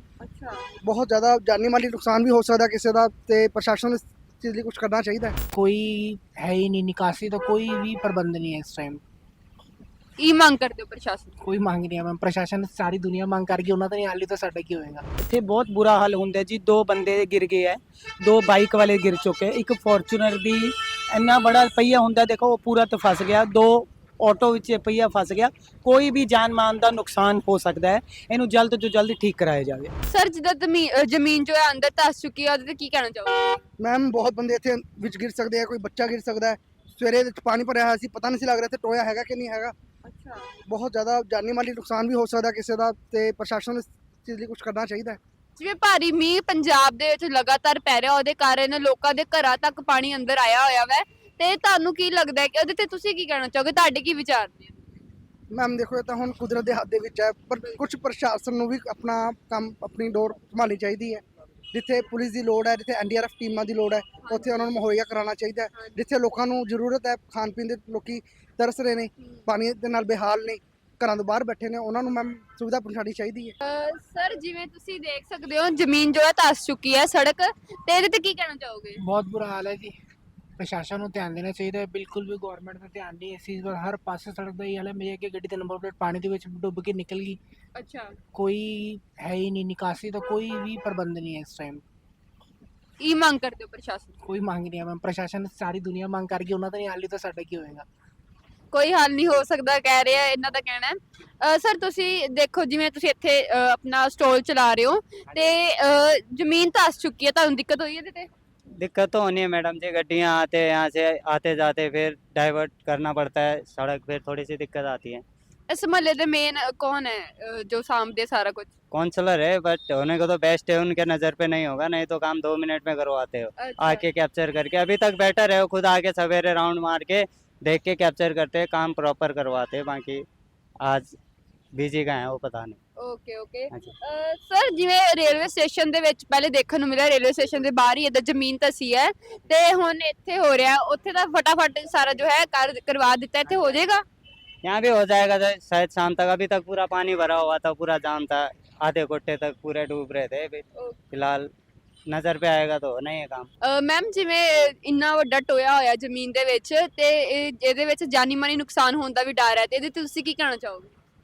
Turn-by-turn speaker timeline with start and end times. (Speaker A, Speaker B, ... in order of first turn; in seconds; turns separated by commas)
Speaker A: 0.2-0.7, Speaker B: 0.8-5.3, Speaker C: 5.5-9.0, Speaker A: 10.2-11.3, Speaker C: 11.4-15.0, Speaker D: 15.2-29.9, Speaker A: 30.1-33.6, Speaker B: 33.8-39.7, Speaker A: 40.0-40.5, Speaker B: 40.7-45.2, Speaker A: 45.6-54.8, Speaker B: 55.5-73.5, Speaker A: 64.2-64.6, Speaker A: 73.6-79.0, Speaker C: 79.0-79.9, Speaker C: 80.6-87.4, Speaker A: 87.7-88.2, Speaker C: 88.3-91.8, Speaker A: 93.0-94.1, Speaker C: 94.2-97.9, Speaker A: 98.7-108.3, Speaker E: 108.8-115.2, Speaker A: 115.7-118.7, Speaker E: 118.9-130.2, Speaker A: 123.5-124.0, Speaker E: 130.8-131.1, Speaker E: 131.7-132.8, Speaker A: 133.0-144.0, Speaker E: 144.6-151.5, Speaker E: 152.1-153.5, Speaker A: 153.6-160.9